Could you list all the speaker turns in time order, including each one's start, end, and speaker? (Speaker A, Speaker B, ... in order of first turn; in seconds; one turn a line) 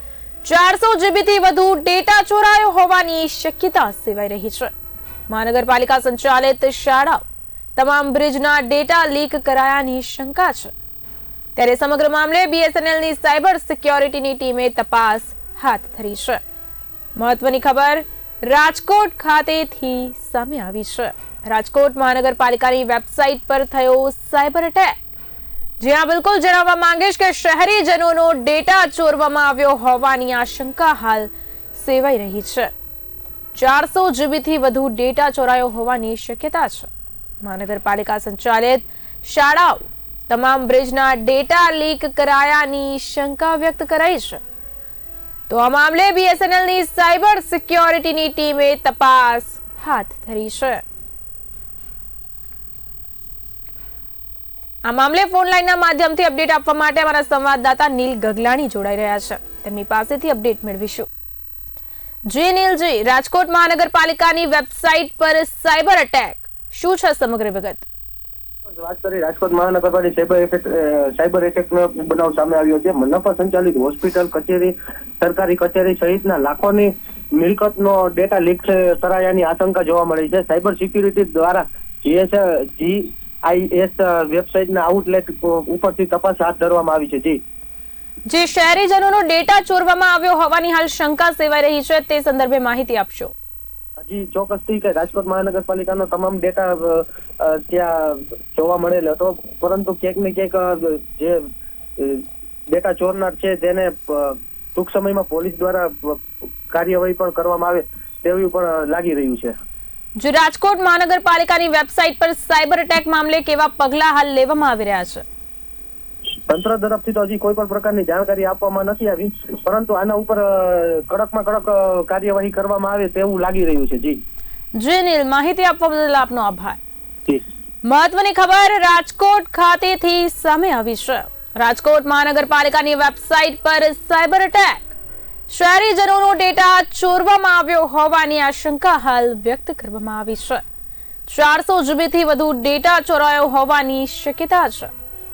Speaker A: 0.4-4.7
Speaker A: 5.3-7.2
Speaker A: 7.8-10.7
Speaker A: 11.6-16.4
Speaker A: 17.2-25.0
Speaker A: 25.8-32.7
Speaker A: 33.5-36.9
Speaker A: 37.4-44.4
Speaker A: 45.5-50.8
Speaker A: 54.9-61.1
Speaker A: 62.3-67.9
Speaker B: 68.7-87.4
Speaker A: 88.3-93.3
Speaker B: 94.0-101.4
Speaker B: 102.0-109.5
Speaker A: 110.2-115.2
Speaker B: 116.5-124.2
Speaker A: 124.8-126.8
Speaker A: 127.8-134.9
Speaker A: 135.5-140.6
Speaker A: 141.3-144.9